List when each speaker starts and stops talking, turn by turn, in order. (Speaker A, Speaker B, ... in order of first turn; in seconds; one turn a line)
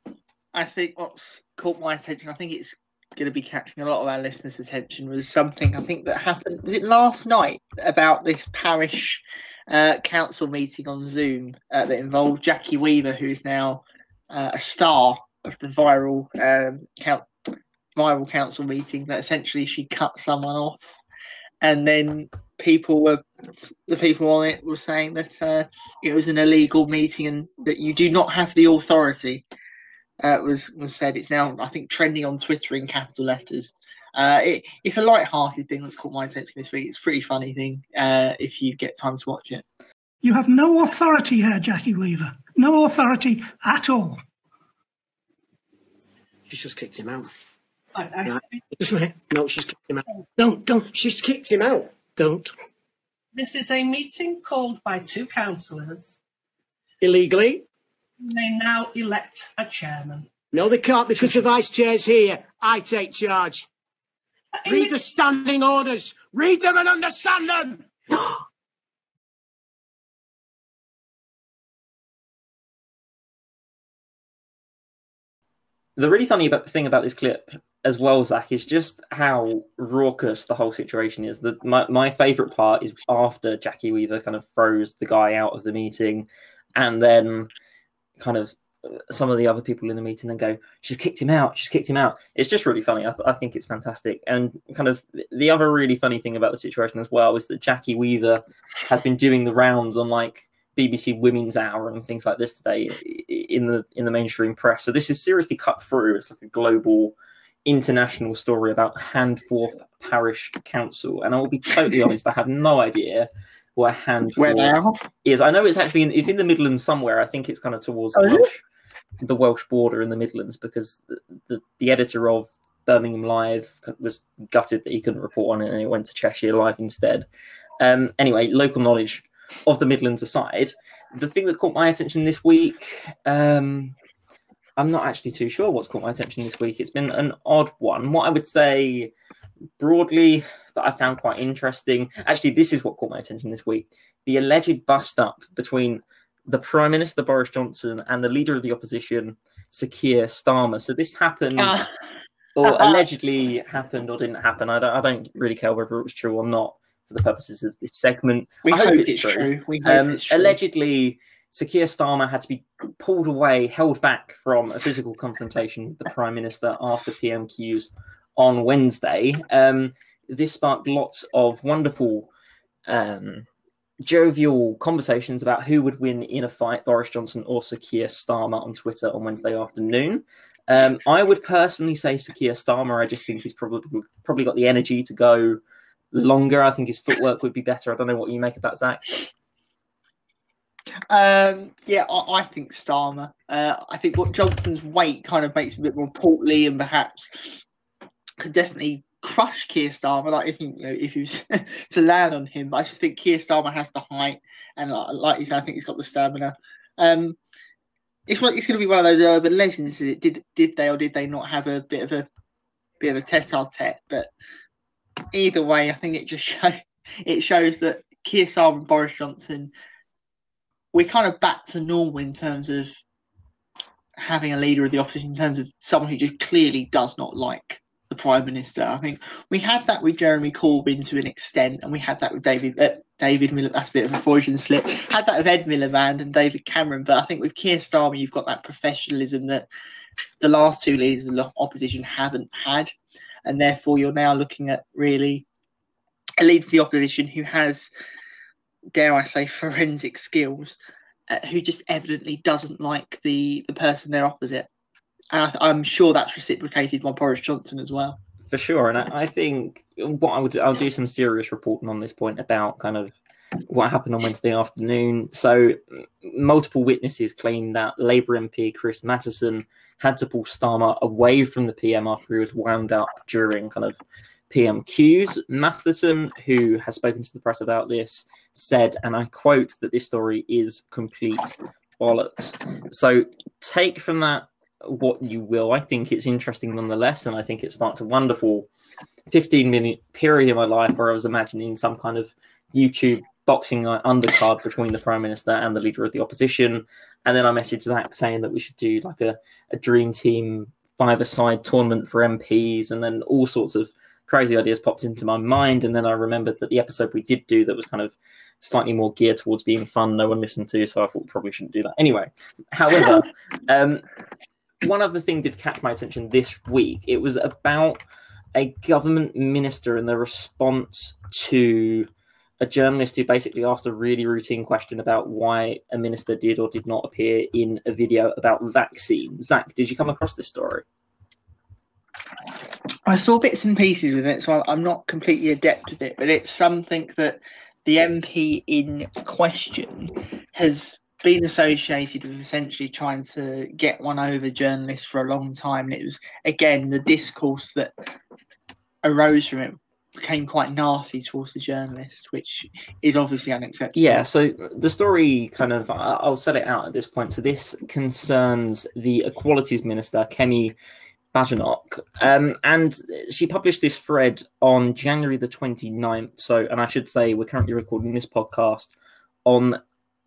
Speaker A: 0.5-17.2
Speaker A: 17.9-21.0
Speaker A: 21.6-29.4
Speaker A: 30.2-39.6
Speaker B: 40.2-44.2
Speaker C: 46.5-47.3
Speaker D: 48.0-48.6
Speaker C: 48.2-52.5
Speaker D: 53.3-56.2
Speaker C: 57.0-57.7
Speaker D: 58.2-60.3
Speaker C: 60.5-63.7
Speaker D: 64.6-65.0
Speaker C: 64.7-68.4
Speaker E: 76.0-87.5
Speaker E: 88.2-107.1
Speaker E: 107.7-118.6
Speaker A: 114.4-115.0
Speaker A: 118.2-118.4
Speaker E: 119.2-127.3
Speaker E: 127.8-133.9
Speaker E: 134.8-139.1
Speaker E: 139.8-151.8
Speaker A: 151.6-151.9
Speaker E: 152.6-172.3
Speaker A: 152.6-153.0
Speaker A: 158.6-160.6
Speaker E: 172.9-173.4
Speaker E: 174.0-185.6
Speaker E: 186.1-189.3
Speaker A: 191.1-197.6
Speaker A: 198.4-207.4
Speaker A: 208.3-212.3
Speaker A: 213.0-214.3
Speaker A: 215.3-219.7
Speaker A: 220.9-223.0
Speaker A: 224.2-239.7
Speaker A: 240.4-242.9
Speaker A: 243.4-245.4
Speaker A: 246.4-247.9
Speaker A: 248.9-250.8
Speaker A: 251.3-254.7
Speaker A: 255.3-258.2
Speaker E: 258.5-263.1
Speaker E: 263.7-288.7
Speaker E: 289.3-314.0
Speaker E: 314.8-318.0
Speaker E: 318.5-322.1
Speaker E: 322.6-330.8
Speaker A: 333.1-347.9
Speaker A: 349.0-354.2
Speaker E: 353.9-360.8
Speaker E: 361.3-368.9
Speaker E: 369.4-369.8